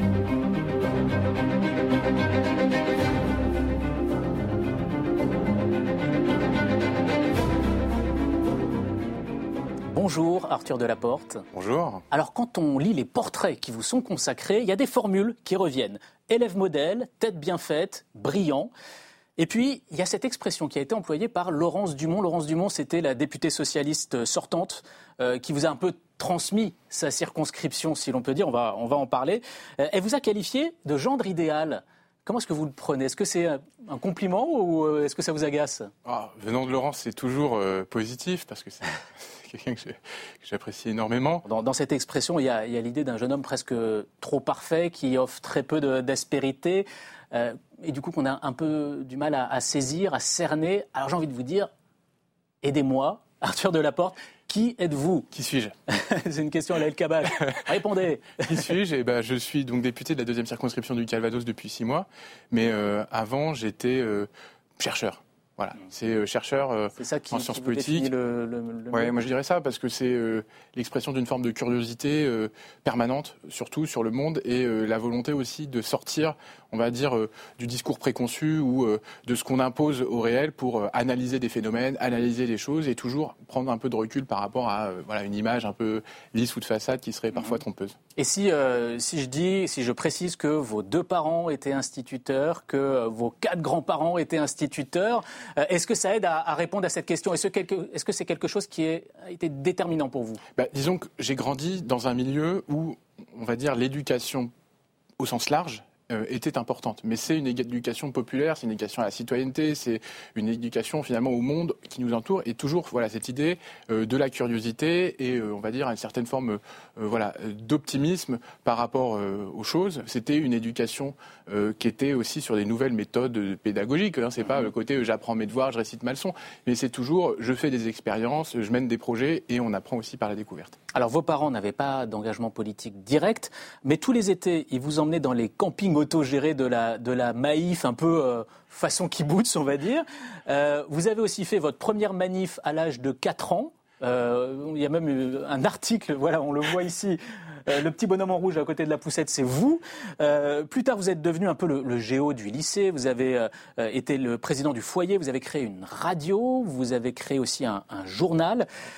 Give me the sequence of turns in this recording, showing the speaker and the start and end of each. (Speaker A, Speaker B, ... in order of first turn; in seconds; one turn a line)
Speaker A: 9.9-11.4
Speaker B: 11.5-12.0
Speaker A: 12.1-18.7
Speaker A: 19.4-35.9
Speaker B: 36.0-41.4
Speaker A: 41.5-51.7
Speaker A: 52.6-55.3
Speaker B: 55.3-55.7
Speaker A: 55.9-58.7
Speaker B: 57.4-57.7
Speaker B: 58.4-68.1
Speaker A: 67.0-69.2
Speaker B: 68.9-88.0
Speaker A: 88.2-100.4
Speaker B: 100.5-104.5
Speaker B: 105.2-130.7
Speaker A: 130.9-158.7